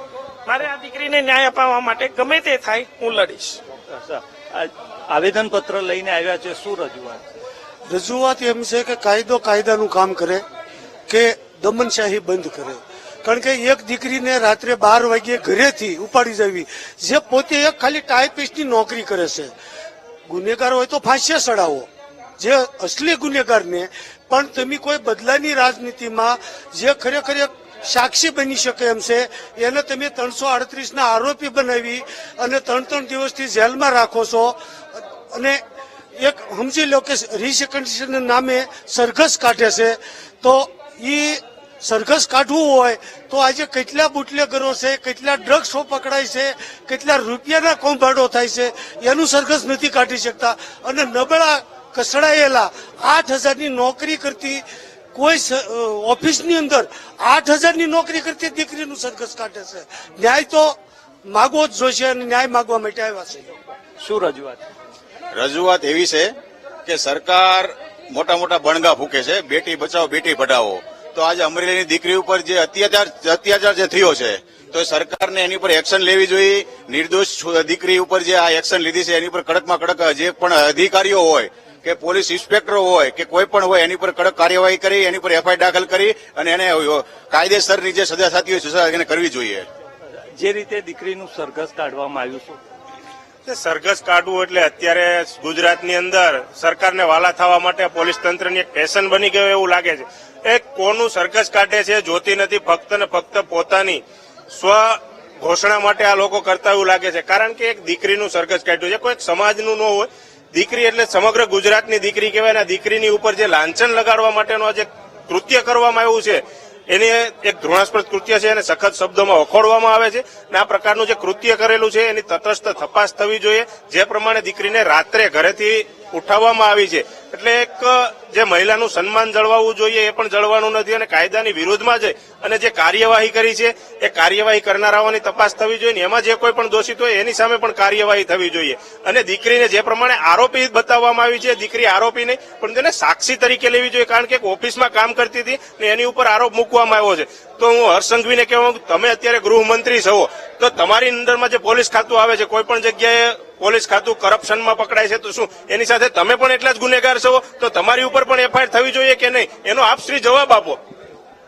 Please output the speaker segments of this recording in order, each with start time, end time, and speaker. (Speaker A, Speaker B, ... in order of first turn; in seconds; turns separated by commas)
Speaker A: 0.5-3.6, Speaker B: 3.9-7.3, Speaker C: 7.9-10.4, Speaker C: 11.1-19.5, Speaker C: 20.3-21.9, Speaker C: 22.4-35.6, Speaker C: 36.2-63.5, Speaker B: 64.0-64.6, Speaker D: 65.3-66.3, Speaker D: 66.8-89.7, Speaker B: 90.4-92.6, Speaker E: 93.5-160.8